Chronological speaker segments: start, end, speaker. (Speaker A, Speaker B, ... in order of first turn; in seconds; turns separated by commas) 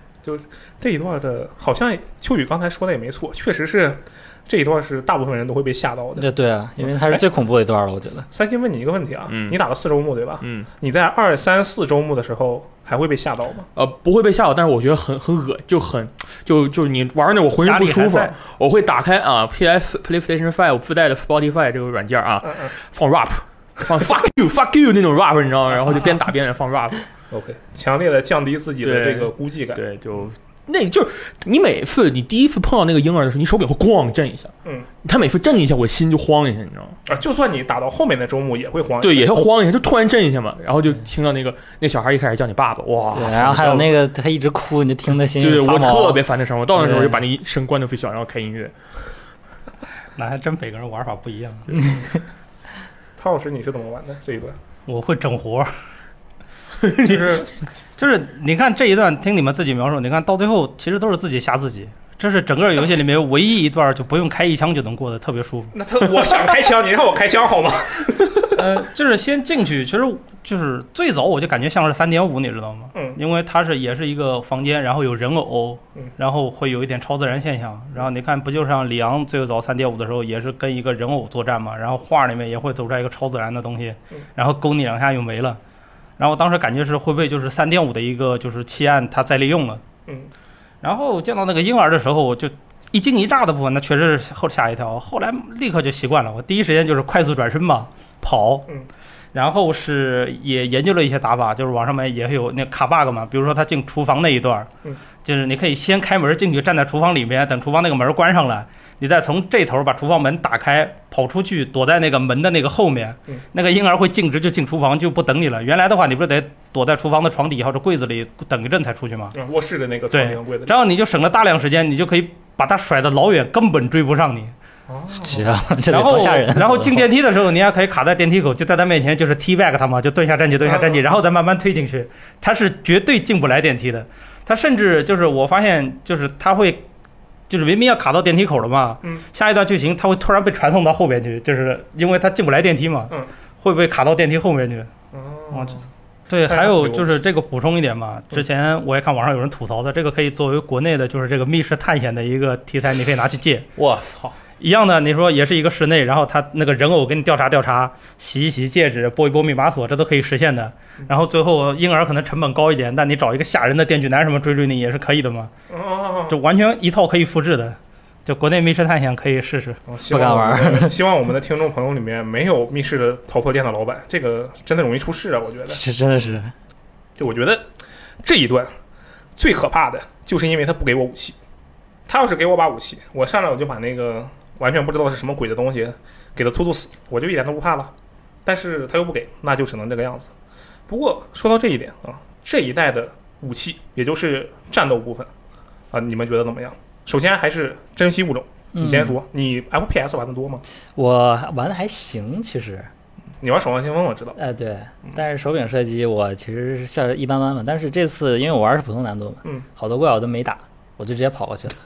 Speaker A: 0.2-6.3, Speaker B: 6.2-8.2, Speaker A: 6.8-7.2, Speaker A: 8.3-13.7, Speaker C: 9.3-9.6, Speaker C: 10.4-10.7, Speaker C: 13.7-27.1, Speaker D: 17.6-18.4, Speaker A: 22.4-22.7, Speaker A: 27.3-29.8, Speaker C: 28.8-34.5, Speaker C: 35.0-37.0, Speaker A: 37.1-39.3, Speaker C: 39.0-43.9, Speaker B: 43.1-46.2, Speaker C: 45.4-48.7, Speaker B: 46.8-47.2, Speaker D: 50.1-51.9, Speaker A: 53.2-54.6, Speaker D: 54.9-55.7, Speaker C: 56.8-57.5, Speaker D: 57.0-57.5, Speaker D: 58.0-65.7, Speaker A: 65.7-68.6, Speaker D: 68.5-85.6, Speaker A: 72.9-73.2, Speaker D: 86.2-89.8, Speaker D: 90.8-98.7, Speaker D: 99.3-104.7, Speaker D: 105.2-119.3, Speaker A: 119.3-120.7, Speaker D: 120.1-124.5, Speaker A: 124.9-125.5, Speaker B: 125.2-127.0, Speaker D: 125.9-136.8, Speaker A: 130.6-131.0, Speaker D: 137.5-144.9, Speaker A: 145.1-145.8, Speaker D: 145.5-153.7, Speaker A: 146.5-147.2, Speaker C: 153.8-154.3, Speaker D: 154.6-165.5, Speaker A: 165.7-166.4, Speaker D: 166.3-169.8, Speaker A: 169.9-175.8, Speaker B: 170.1-170.9, Speaker B: 175.7-176.5, Speaker A: 177.2-177.7, Speaker A: 178.2-178.7, Speaker A: 179.4-181.4, Speaker A: 182.1-187.9, Speaker A: 188.4-190.3, Speaker A: 190.9-195.3, Speaker A: 195.9-200.6, Speaker B: 198.7-199.2, Speaker B: 200.9-202.9, Speaker A: 203.4-204.4, Speaker B: 204.4-211.7